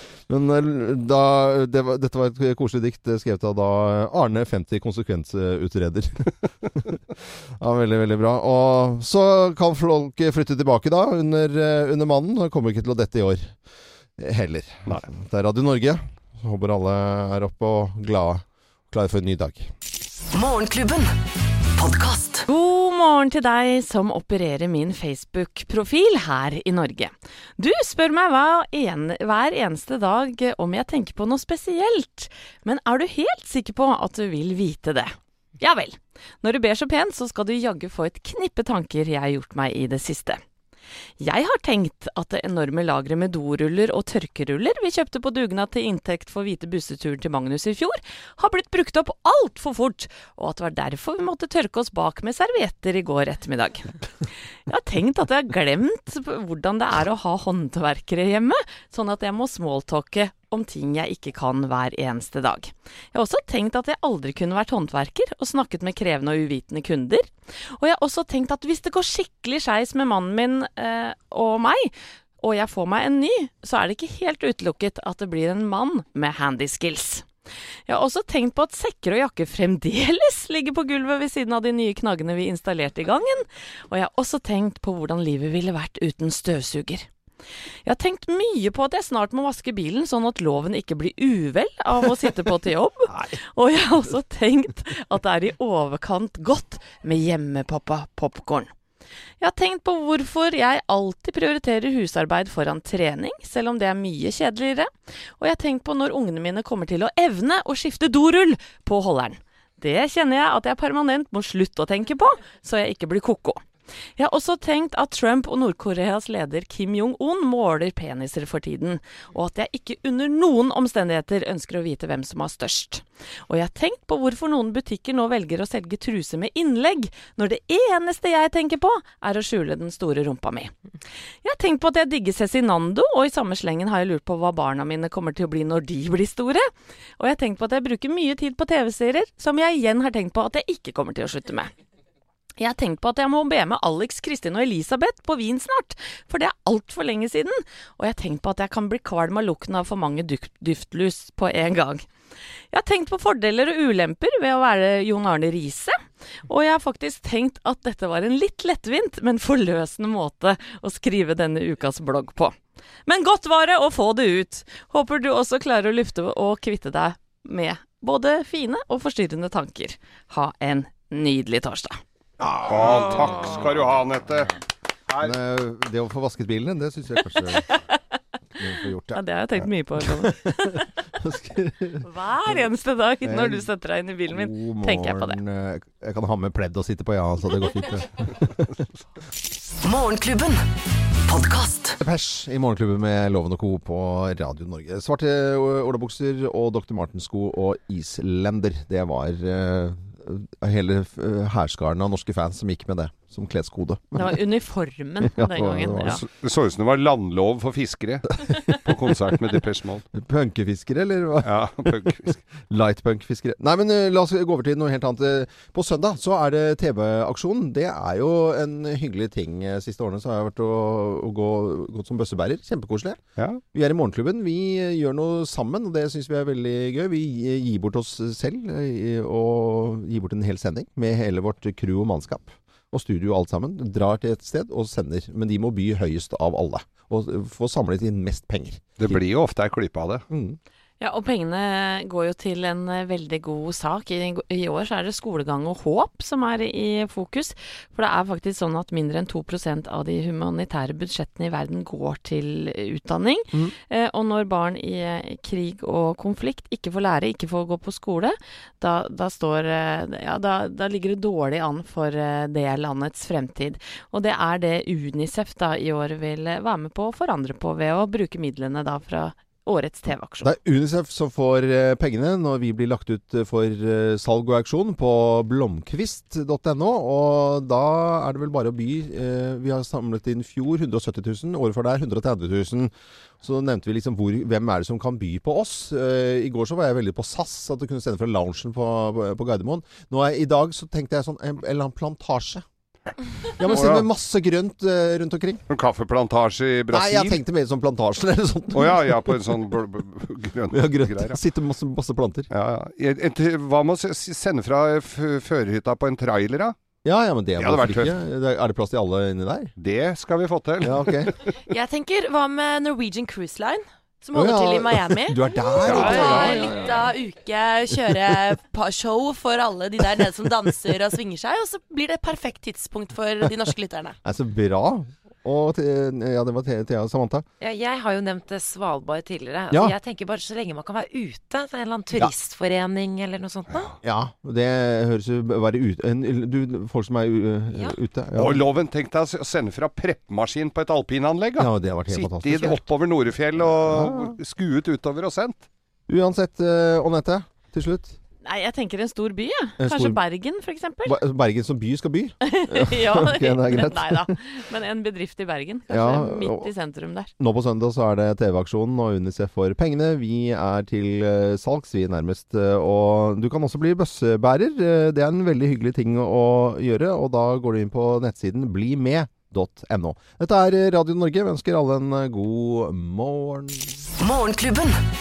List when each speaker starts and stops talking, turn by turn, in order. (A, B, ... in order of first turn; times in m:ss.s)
0:00.3-0:07.0 A
0:07.6-0:13.6 A
0:14.2-0:19.7 A
0:20.3-0:21.2 B
0:21.8-0:22.4 B
0:22.5-0:40.4 C
0:41.2-0:53.9 C
0:54.7-1:17.3 C
1:17.9-1:27.1 C
1:27.8-1:38.7 C
1:39.4-1:53.6 C
1:54.2-2:10.8 C
2:11.4-2:21.7 C
2:22.6-2:32.1 C
2:32.7-2:42.6 C
2:43.1-2:52.0 C
2:52.4-2:54.5 D
2:55.1-2:55.3 D
2:55.2-2:57.7 A
2:58.6-3:02.0 A
2:59.1-3:00.9 C
3:02.0-3:05.4 C
3:03.2-3:03.7 A
3:04.3-3:08.8 A
3:09.8-3:10.7 B
3:11.3-3:12.0 B
3:12.0-3:24.4 A
3:24.1-3:26.2 C
3:25.2-3:26.2 A
3:26.0-3:30.0 D
3:30.1-3:43.2 A
3:31.4-3:32.4 D
3:43.7-3:59.2 A
3:59.0-4:00.2 D
4:00.3-4:00.6 A
4:01.0-4:30.5 C
4:30.4-4:52.6 A
4:53.6-4:55.6 A
4:53.6-4:54.1 D
4:55.7-4:57.4 D
4:56.9-4:59.5 A
4:58.7-5:01.4 D
5:00.7-5:02.5 A
5:02.5-5:06.7 D
5:07.0-5:09.7 A
5:07.6-5:08.1 D
5:09.8-5:11.5 D
5:10.8-5:11.3 A
5:11.6-5:24.2 E
5:14.3-5:17.1 A
5:15.8-5:16.4 D
5:24.2-5:27.4 A
5:27.6-5:33.9 F
5:34.0-5:38.6 A
5:38.4-5:45.7 D
5:41.6-5:42.8 A
5:43.6-5:44.4 A
5:46.1-5:48.2 A
5:48.4-5:51.2 C
5:49.8-5:50.2 A
5:51.0-5:54.4 A
5:52.4-5:57.3 C
5:55.9-5:56.7 A
5:57.4-6:14.1 A
6:14.2-6:15.1 B